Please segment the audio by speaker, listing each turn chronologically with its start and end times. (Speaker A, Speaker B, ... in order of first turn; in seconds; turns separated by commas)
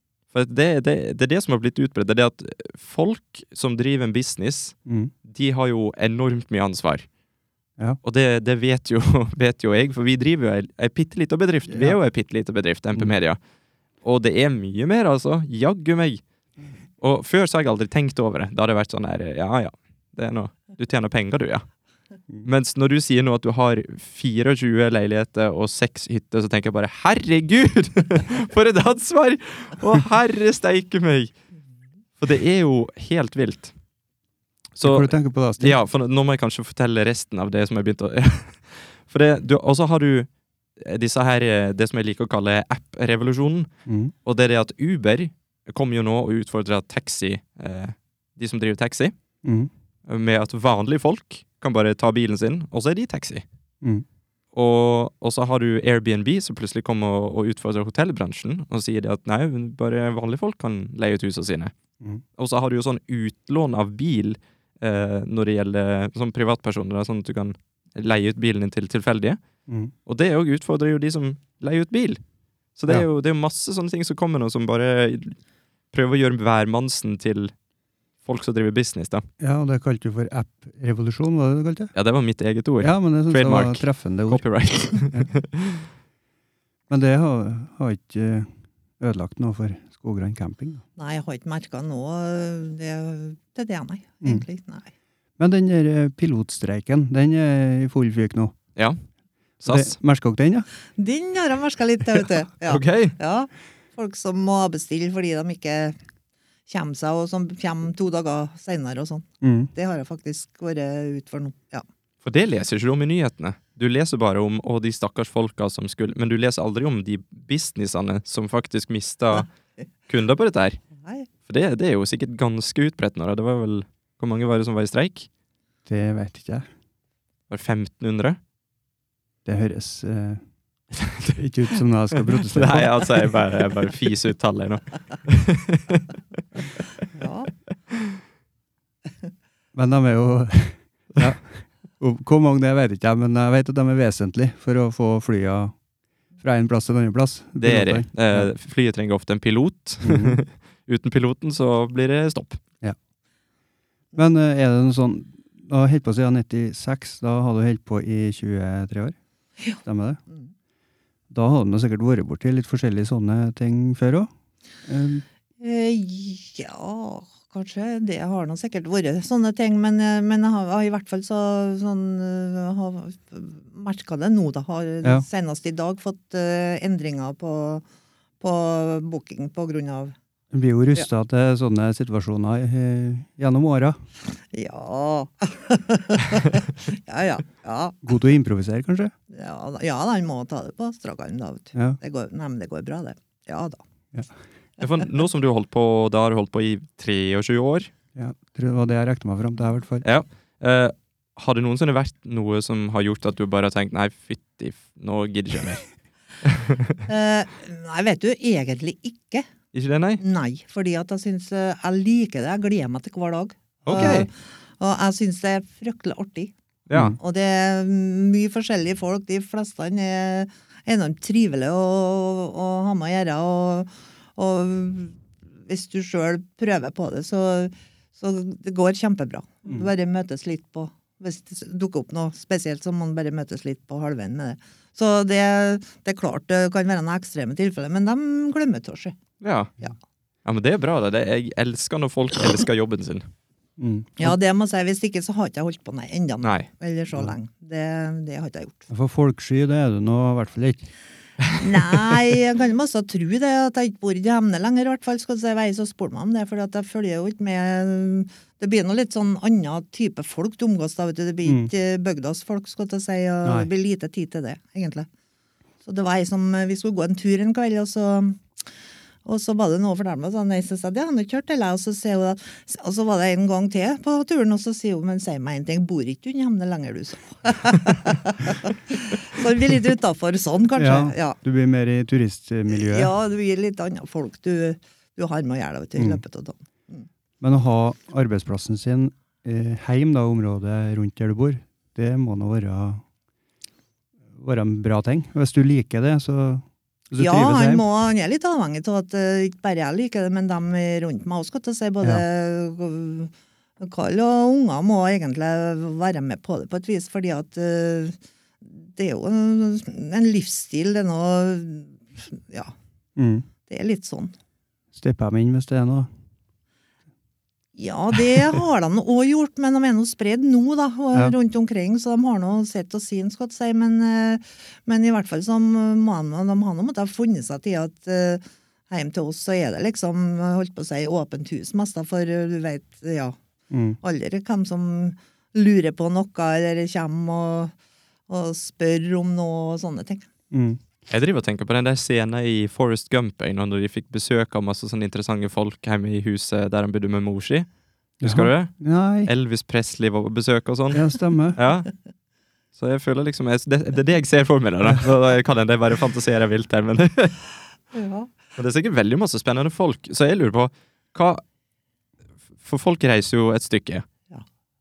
Speaker A: 0.3-7.1, Speaker B: 4.8-5.1, Speaker A: 8.0-13.4, Speaker B: 11.7-12.0, Speaker A: 14.0-16.2, Speaker A: 17.0-21.7, Speaker A: 22.4-31.3, Speaker A: 32.2-33.7, Speaker A: 34.8-43.7, Speaker B: 34.8-35.8, Speaker B: 43.9-44.1, Speaker A: 44.2-49.1, Speaker B: 49.4-49.7, Speaker A: 50.1-53.4, Speaker A: 54.5-61.7, Speaker A: 62.4-69.4, Speaker B: 69.7-69.9, Speaker A: 70.0-72.2, Speaker A: 72.8-75.4, Speaker A: 75.9-77.5, Speaker A: 78.2-79.2, Speaker B: 79.4-81.9, Speaker A: 81.9-85.9, Speaker B: 82.8-84.4, Speaker B: 86.9-90.8, Speaker C: 91.0-94.9, Speaker B: 95.4-98.5, Speaker A: 99.6-99.9, Speaker B: 99.7-100.7, Speaker C: 101.0-106.0, Speaker A: 102.6-103.1, Speaker C: 106.7-111.8, Speaker B: 109.4-109.7, Speaker A: 112.2-119.5, Speaker A: 120.1-120.8, Speaker C: 121.0-121.3, Speaker A: 121.5-125.3, Speaker B: 125.8-126.7, Speaker A: 127.5-128.4, Speaker B: 129.4-130.4, Speaker A: 131.0-131.4, Speaker B: 131.3-133.1, Speaker A: 132.3-136.1, Speaker C: 137.1-137.5, Speaker B: 139.7-145.7, Speaker B: 146.4-148.5, Speaker A: 147.6-152.6, Speaker B: 150.0-150.4, Speaker B: 154.1-159.2, Speaker B: 159.8-160.2, Speaker B: 161.3-164.3, Speaker B: 164.8-165.2, Speaker C: 165.6-177.8, Speaker C: 178.4-180.1, Speaker B: 180.5-184.0, Speaker C: 184.5-188.0, Speaker B: 188.0-189.1, Speaker C: 189.3-193.8, Speaker A: 194.8-197.9, Speaker B: 198.1-200.1, Speaker A: 200.0-205.9, Speaker A: 206.4-207.0, Speaker C: 207.1-209.5, Speaker A: 209.7-210.2, Speaker C: 210.2-216.5, Speaker A: 213.8-214.3, Speaker A: 216.9-217.2, Speaker C: 217.2-239.1, Speaker A: 239.4-239.7, Speaker A: 240.4-243.3, Speaker B: 243.8-244.3, Speaker C: 244.2-248.9, Speaker A: 246.4-246.7, Speaker B: 248.9-250.9, Speaker C: 251.6-265.1, Speaker B: 261.4-261.7, Speaker C: 265.8-268.4, Speaker C: 269.2-281.4, Speaker B: 280.8-283.1, Speaker C: 282.7-287.1, Speaker B: 285.9-286.2, Speaker B: 287.4-293.0, Speaker B: 294.3-297.9, Speaker C: 297.1-312.7, Speaker B: 313.1-313.5, Speaker C: 313.7-314.3, Speaker B: 314.9-316.1, Speaker C: 317.8-333.4, Speaker B: 333.7-334.0, Speaker C: 334.0-337.7, Speaker C: 338.3-340.3, Speaker B: 340.5-340.8, Speaker A: 341.1-347.7, Speaker A: 348.2-351.9, Speaker B: 348.2-349.3, Speaker B: 350.9-351.6, Speaker A: 352.7-357.4, Speaker C: 357.9-358.3, Speaker A: 358.6-361.4, Speaker A: 362.6-364.1